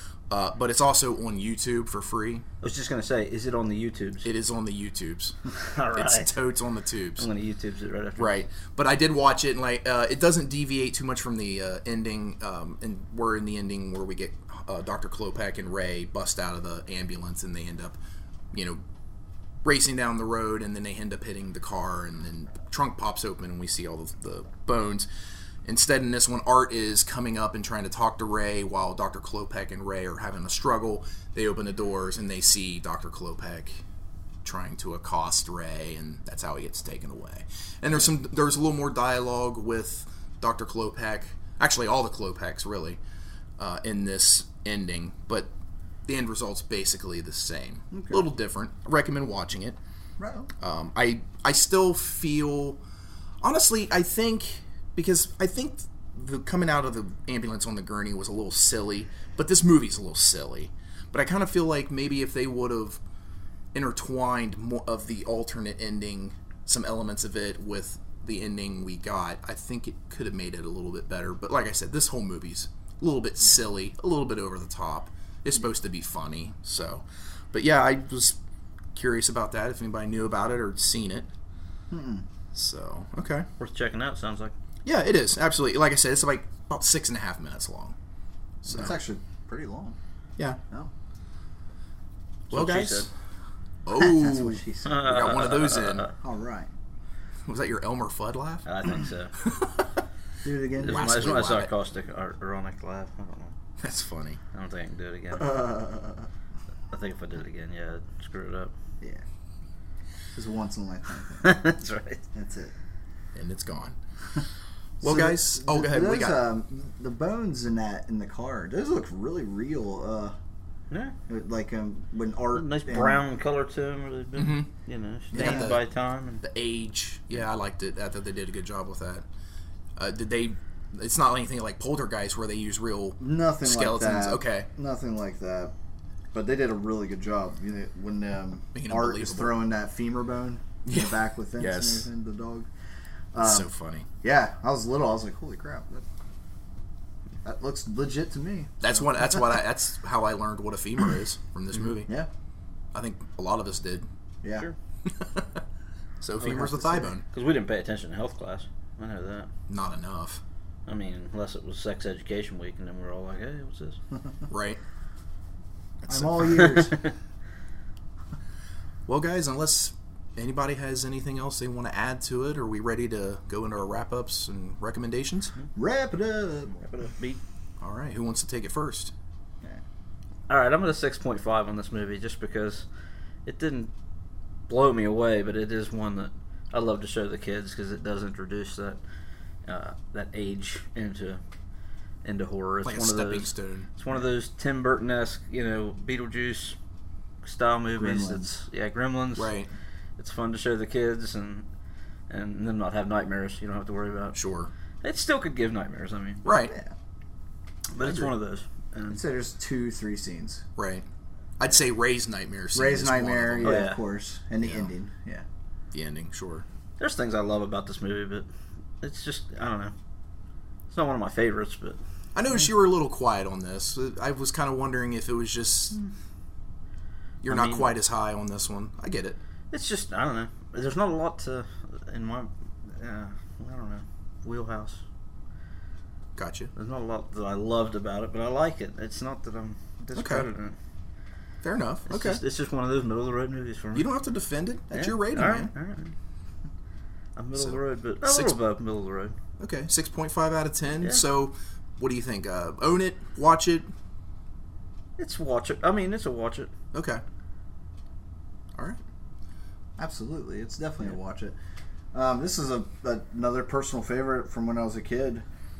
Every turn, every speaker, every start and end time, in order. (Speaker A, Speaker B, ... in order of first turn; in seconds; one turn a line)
Speaker A: 0.3-2.4
Speaker B: 2.6-4.3
Speaker A: 4.2-5.4
Speaker B: 5.5-6.3
Speaker A: 5.9-7.3
Speaker B: 7.2-8.4
Speaker A: 8.2-18.0
Speaker A: 18.5-18.8
Speaker A: 19.6-25.1
Speaker A: 25.6-33.8
Speaker A: 34.4-43.0
Speaker A: 43.6-45.5
Speaker A: 46.1-49.8
Speaker C: 47.9-48.3
Speaker C: 50.2-50.5
Speaker A: 50.6-52.8
Speaker A: 53.4-63.0
Speaker A: 63.7-78.4
Speaker A: 78.9-81.3
Speaker C: 81.9-82.2
Speaker A: 82.5-83.5
Speaker B: 83.6-84.5
Speaker A: 84.8-87.9
Speaker A: 88.6-89.0
Speaker C: 88.7-90.0
Speaker A: 92.5-93.1
Speaker B: 92.5-93.1
Speaker A: 93.8-96.1
Speaker C: 94.0-95.2
Speaker B: 94.8-96.1
Speaker C: 96.1-96.7
Speaker A: 97.5-98.7
Speaker B: 98.6-99.3
Speaker A: 99.4-99.8
Speaker C: 100.4-101.2
Speaker B: 100.8-103.5
Speaker A: 100.8-101.7
Speaker A: 103.8-104.4
Speaker B: 104.5-105.7
Speaker C: 105.4-106.3
Speaker B: 106.9-108.7
Speaker C: 110.3-111.7
Speaker B: 111.4-112.2
Speaker C: 112.3-112.7
Speaker A: 113.3-114.0
Speaker A: 115.0-116.4
Speaker C: 115.0-120.3
Speaker C: 121.3-123.2
Speaker B: 122.5-126.4
Speaker A: 124.3-124.7
Speaker C: 125.3-125.8
Speaker A: 125.3-125.8
Speaker A: 126.4-129.2
Speaker A: 130.0-134.7
Speaker C: 133.2-135.7
Speaker C: 136.3-142.7
Speaker A: 138.7-139.6
Speaker A: 140.8-142.1
Speaker C: 143.3-143.7
Speaker A: 143.4-144.1
Speaker C: 144.2-146.1
Speaker C: 147.4-149.4
Speaker A: 148.8-152.1
Speaker A: 152.9-154.1
Speaker C: 154.4-154.7
Speaker A: 155.1-155.6
Speaker A: 156.2-157.2
Speaker C: 156.4-157.1
Speaker B: 157.3-159.5
Speaker A: 159.7-160.4
Speaker B: 160.9-164.0
Speaker A: 164.5-164.8
Speaker A: 166.0-166.9
Speaker C: 166.1-167.0
Speaker A: 169.1-175.5
Speaker C: 175.8-176.8
Speaker B: 176.7-177.4
Speaker A: 177.8-179.1
Speaker B: 180.5-182.8
Speaker B: 183.4-183.9
Speaker B: 184.7-189.0
Speaker B: 189.7-191.4
Speaker B: 192.2-196.8
Speaker A: 192.8-193.9
Speaker B: 197.4-199.5
Speaker C: 198.0-198.5
Speaker A: 199.3-199.7
Speaker B: 200.2-201.7
Speaker B: 202.3-204.4
Speaker A: 204.3-204.7
Speaker B: 205.0-206.4
Speaker A: 206.4-206.7
Speaker C: 206.6-206.9
Speaker B: 207.9-209.2
Speaker A: 208.0-208.3
Speaker C: 209.1-210.6
Speaker A: 210.8-211.0
Speaker A: 211.6-213.8
Speaker C: 212.7-215.4
Speaker B: 213.6-214.0
Speaker A: 214.6-214.9
Speaker A: 215.9-216.6
Speaker B: 217.0-218.5
Speaker B: 219.0-219.9
Speaker B: 220.9-222.0
Speaker A: 222.3-226.0
Speaker A: 227.4-229.4
Speaker B: 227.4-227.9
Speaker B: 229.7-235.0
Speaker A: 236.3-236.7
Speaker B: 236.8-240.8
Speaker A: 240.1-240.5
Speaker A: 241.6-242.4
Speaker B: 242.1-244.1
Speaker A: 243.9-245.7
Speaker B: 244.9-246.1
Speaker B: 247.4-249.3
Speaker A: 247.5-248.6
Speaker A: 249.6-253.9
Speaker B: 255.2-256.7
Speaker A: 256.9-257.2
Speaker C: 260.0-261.6
Speaker C: 262.1-265.4